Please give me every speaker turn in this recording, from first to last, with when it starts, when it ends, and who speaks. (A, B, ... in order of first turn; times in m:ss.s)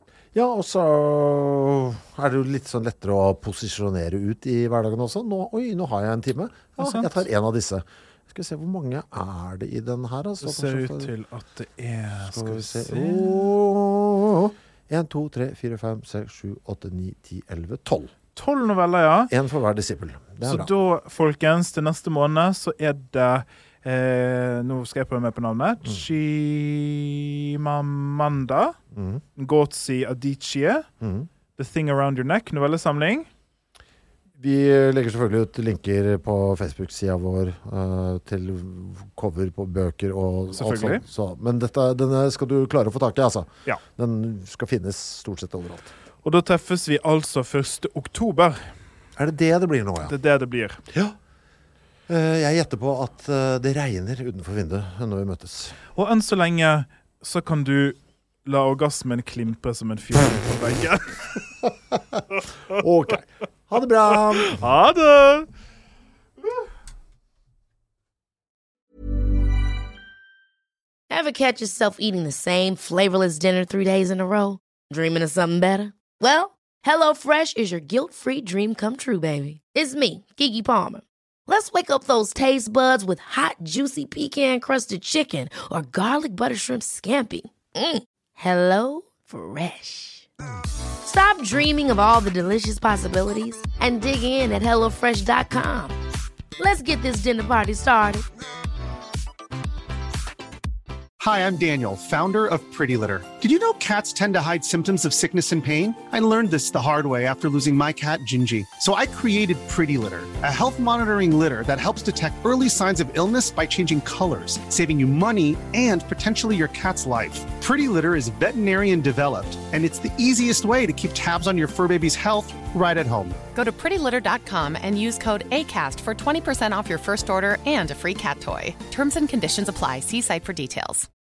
0:00.3-0:11.1 A
0:06.8-0:07.2 B
0:10.4-0:13.5 B
0:12.2-0:18.1 A
0:18.4-0:19.3 B
0:19.3-0:20.7 A
0:20.4-0:28.8 B
0:28.9-0:29.2 A
0:29.4-0:30.9 B
0:31.0-0:31.3 A
0:31.6-0:33.3 B
0:34.4-0:45.9 A
0:40.5-0:41.0 B
0:46.2-0:48.7 B
0:49.2-0:50.1 A
0:50.1-0:50.8 B
0:50.9-0:51.2 A
0:52.1-0:55.8 A
0:55.9-1:01.5 B
1:01.6-1:02.2 A
1:02.7-1:04.6 A
1:04.4-1:05.5 B
1:11.1-1:30.3 C
1:31.0-1:36.0 C
1:36.6-1:38.2 C
1:41.2-2:03.4 D
2:03.5-2:11.1 E